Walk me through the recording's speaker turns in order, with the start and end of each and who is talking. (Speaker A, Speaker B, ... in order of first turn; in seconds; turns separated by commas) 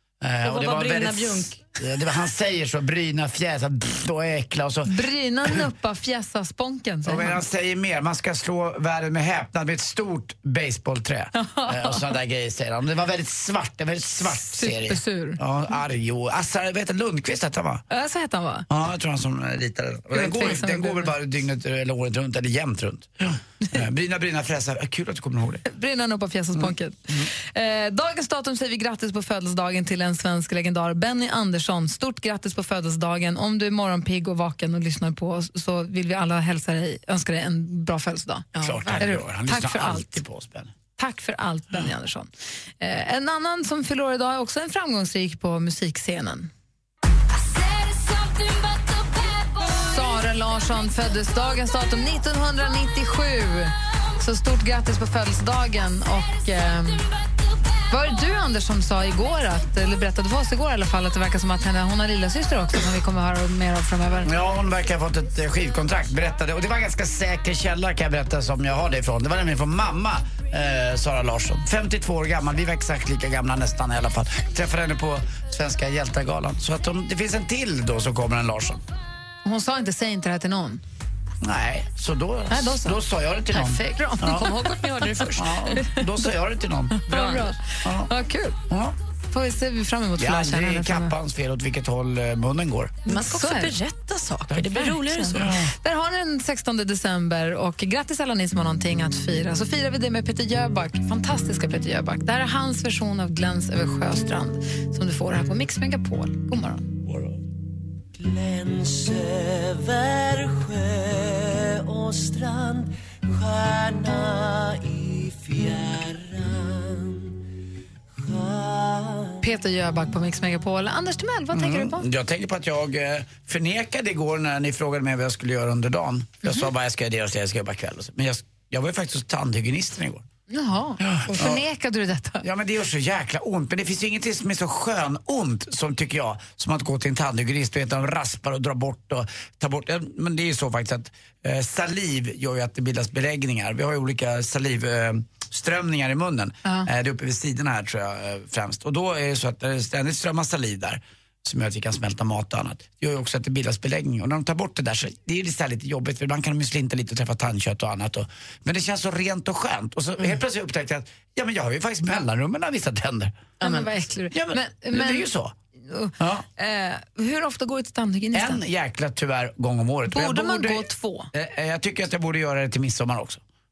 Speaker A: 0.2-5.0, Speaker B: 0.4-1.6, Speaker C: 4.9-7.4, Speaker A: 7.0-17.8, Speaker C: 11.3-12.0, Speaker C: 14.3-15.4, Speaker C: 17.9-18.7, Speaker A: 18.7-25.6, Speaker C: 20.1-21.1, Speaker C: 25.7-40.2, Speaker B: 38.6-39.0, Speaker A: 38.6-40.7, Speaker C: 41.0-42.3, Speaker C: 42.8-46.5, Speaker C: 49.6-57.1, Speaker C: 57.9-64.3, Speaker A: 64.2-78.8, Speaker C: 79.5-80.8, Speaker A: 81.4-84.5, Speaker C: 82.5-83.0, Speaker C: 83.5-84.7, Speaker B: 84.3-85.8, Speaker A: 85.3-88.1, Speaker C: 87.0-88.6, Speaker A: 88.7-89.0, Speaker C: 89.3-91.1, Speaker A: 90.2-93.0, Speaker C: 93.1-93.7, Speaker B: 93.1-95.5, Speaker C: 94.7-106.9, Speaker A: 95.3-95.7, Speaker A: 107.0-107.4, Speaker D: 108.2-117.4, Speaker D: 118.1-119.5, Speaker C: 119.4-122.0, Speaker A: 121.5-130.2, Speaker C: 130.5-132.4, Speaker A: 131.0-131.6, Speaker A: 132.4-163.5, Speaker C: 163.6-165.3, Speaker B: 163.6-163.9, Speaker A: 164.3-165.5, Speaker C: 165.8-168.6, Speaker A: 166.2-166.5, Speaker A: 168.3-173.4, Speaker C: 170.1-171.3